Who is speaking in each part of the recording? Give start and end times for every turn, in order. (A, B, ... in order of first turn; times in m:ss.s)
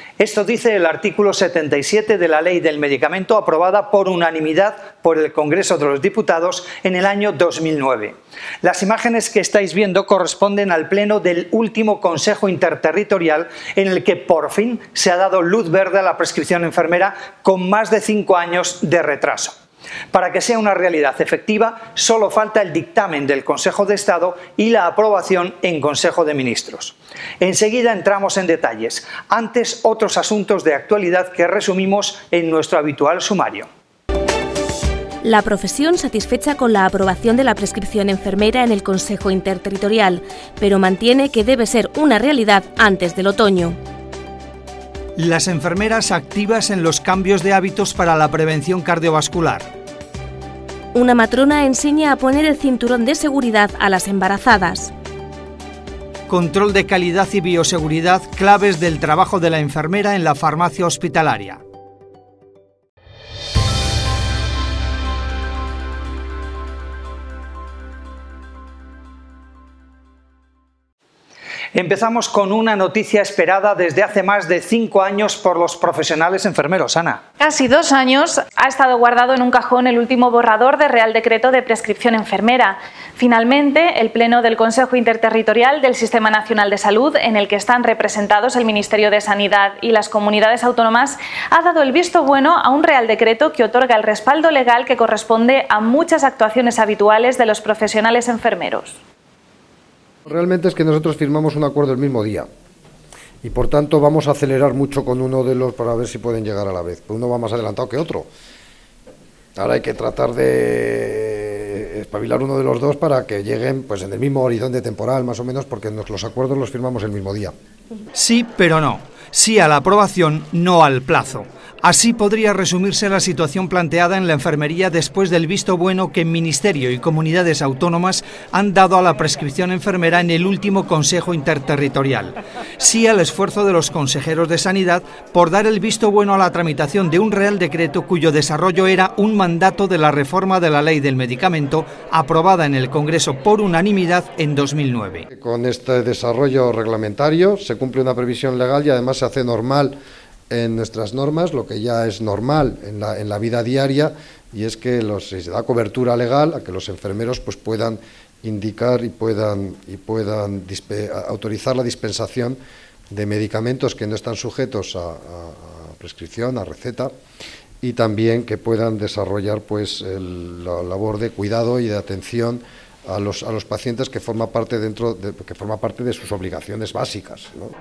0:00.2-0:19.6 A
0:20.1-0:33.6 A
0:35.2-0:43.7 B
0:45.2-0:49.7 A
0:50.9-0:54.9 B
0:56.3-1:01.6 A
1:11.8-1:17.2 A
1:17.4-1:39.0 C
1:40.2-1:42.5 D
1:43.4-1:48.3 D
1:49.6-1:57.5 D
1:58.2-2:25.2 A
2:25.3-2:30.0 D
2:30.5-2:42.6 D
2:43.1-2:47.1 D
2:47.8-2:57.7 D